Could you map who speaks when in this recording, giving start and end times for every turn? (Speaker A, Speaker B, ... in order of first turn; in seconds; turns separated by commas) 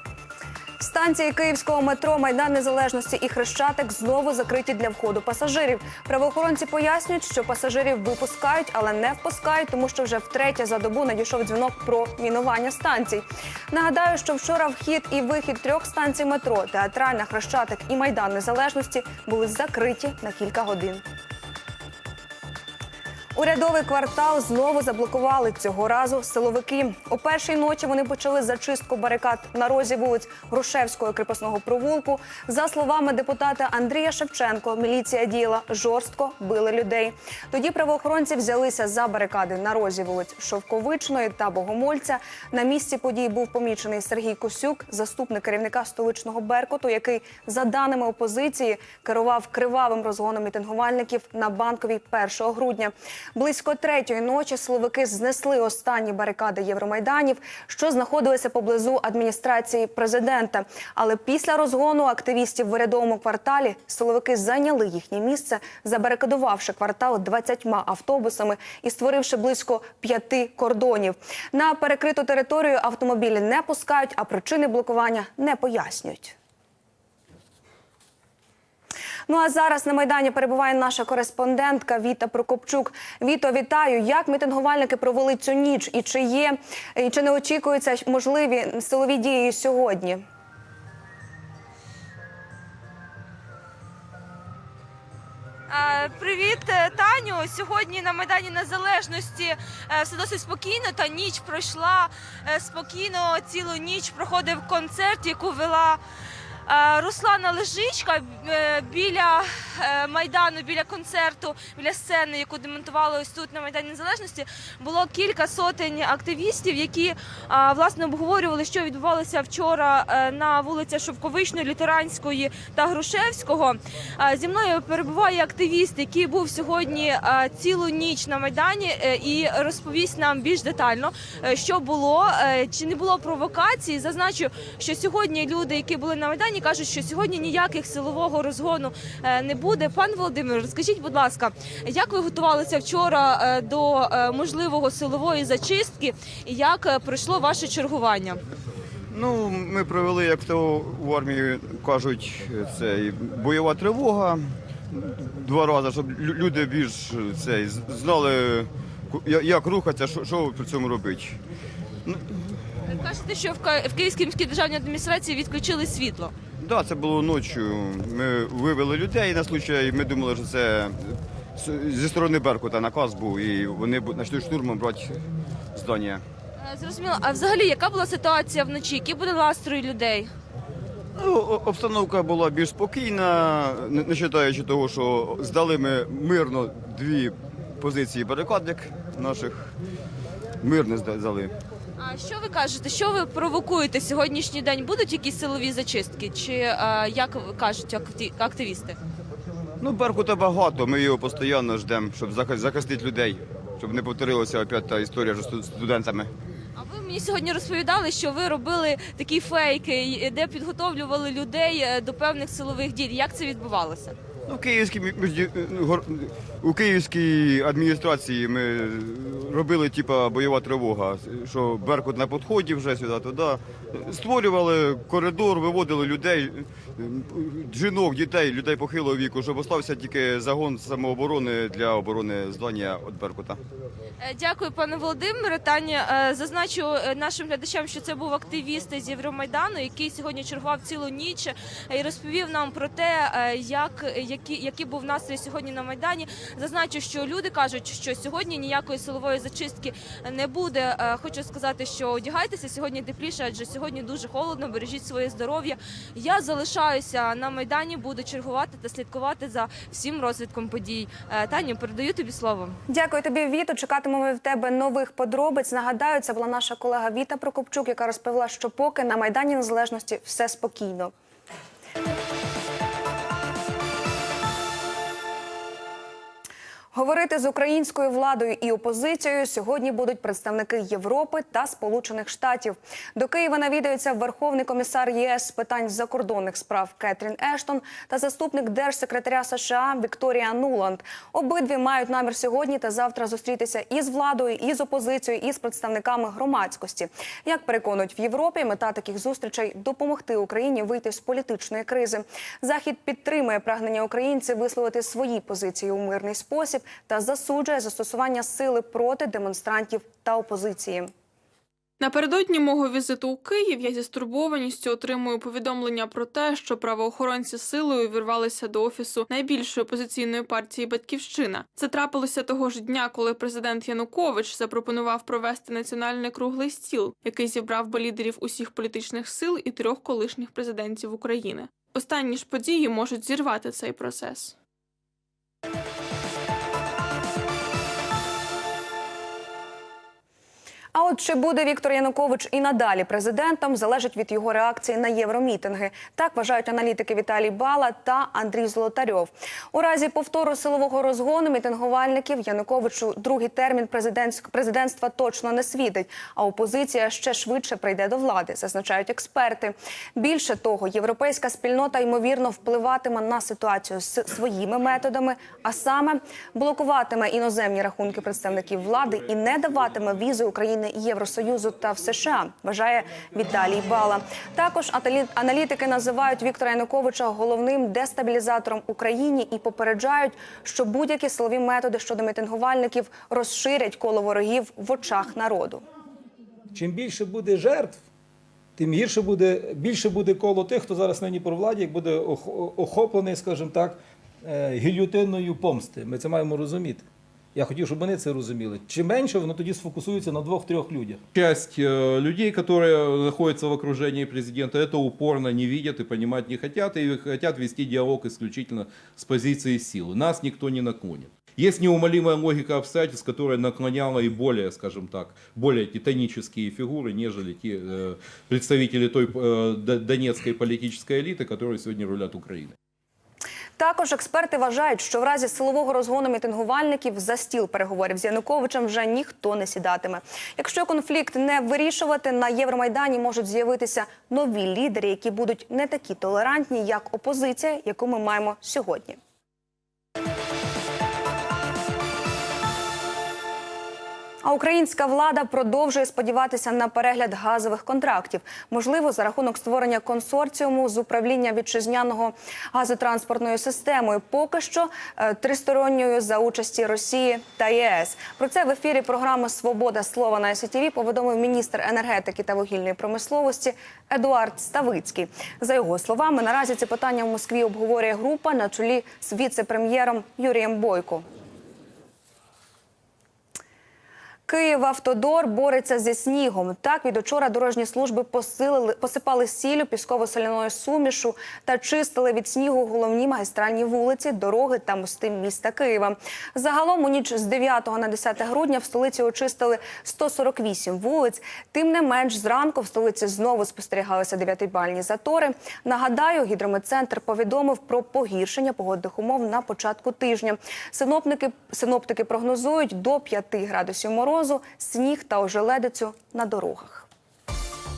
Speaker A: 0.8-21.0, Speaker A: 23.4-76.4, Speaker A: 79.3-90.2, Speaker B: 95.7-106.0, Speaker B: 106.7-148.4, Speaker C: 149.1-154.4, Speaker C: 154.9-161.4, Speaker B: 162.9-166.3, Speaker C: 166.6-175.2, Speaker C: 175.8-176.2, Speaker B: 176.6-180.3, Speaker C: 181.2-189.7, Speaker C: 190.6-191.5, Speaker B: 192.0-199.0, Speaker C: 199.8-206.3, Speaker B: 206.8-214.2, Speaker C: 214.5-233.6, Speaker B: 234.2-262.8, Speaker A: 262.9-271.1, Speaker A: 276.9-311.1, Speaker D: 312.0-334.6, Speaker A: 340.9-385.8, Speaker E: 386.7-388.0, Speaker E: 388.8-401.2, Speaker F: 401.4-422.8, Speaker A: 423.8-439.2, Speaker A: 444.4-471.2, Speaker A: 474.5-507.1